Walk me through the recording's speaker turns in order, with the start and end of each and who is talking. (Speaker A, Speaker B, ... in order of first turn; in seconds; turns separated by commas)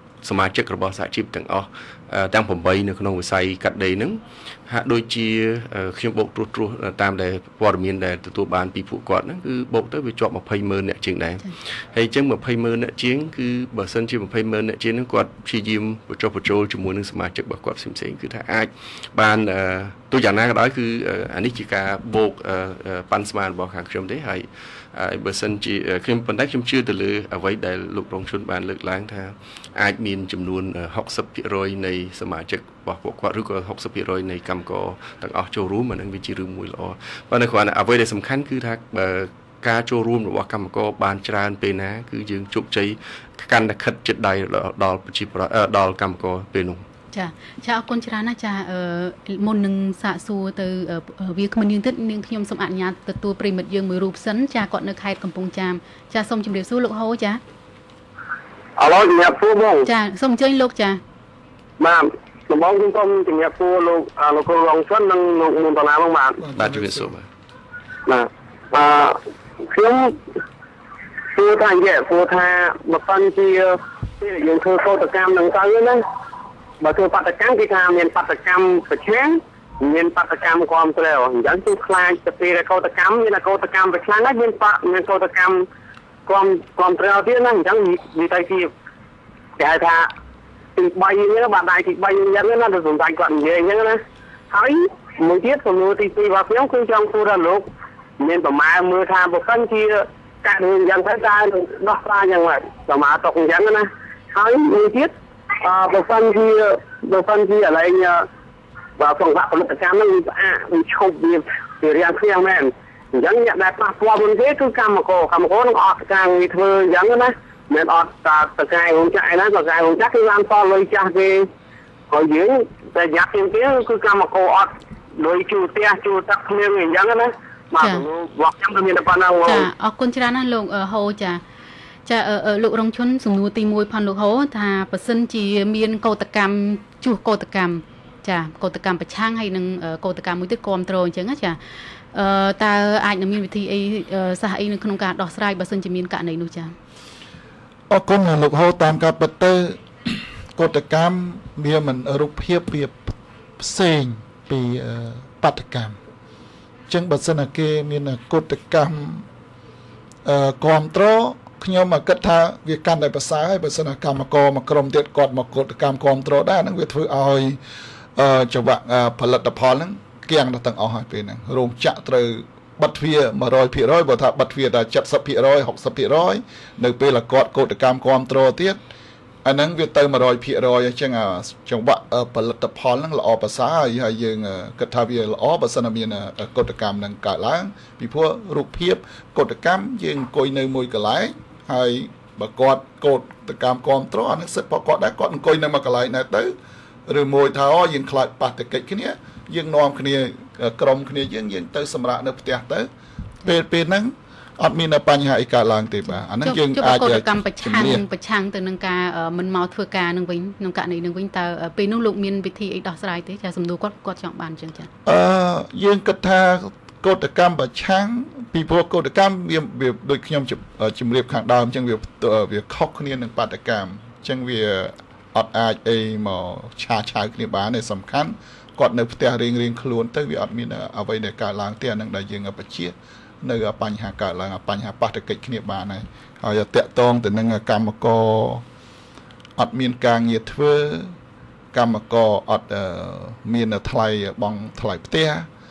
Speaker A: 0.2-46.8, Speaker B: 47.1-57.4, Speaker C: 58.8-59.9, Speaker B: 59.9-61.0, Speaker C: 61.8-66.4, Speaker D: 66.4-67.1, Speaker A: 66.5-67.2, Speaker C: 68.1-70.2, Speaker C: 71.3-76.0, Speaker C: 76.8-85.6, Speaker C: 86.3-88.7, Speaker C: 89.6-90.1, Speaker C: 90.8-94.0, Speaker C: 94.5-97.7, Speaker C: 98.2-108.2, Speaker C: 109.0-121.5, Speaker C: 122.1-129.7, Speaker B: 127.8-128.0, Speaker B: 129.4-131.4, Speaker B: 132.1-141.6, Speaker B: 142.1-146.7, Speaker D: 147.9-156.0, Speaker D: 156.9-159.2, Speaker D: 160.2-167.6, Speaker D: 168.2-178.8, Speaker D: 179.4-196.6, Speaker D: 197.1-202.9, Speaker D: 203.4-208.0, Speaker B: 206.4-214.9, Speaker D: 215.0-238.6, Speaker D: 239.6-241.2, Speaker D: 241.7-245.5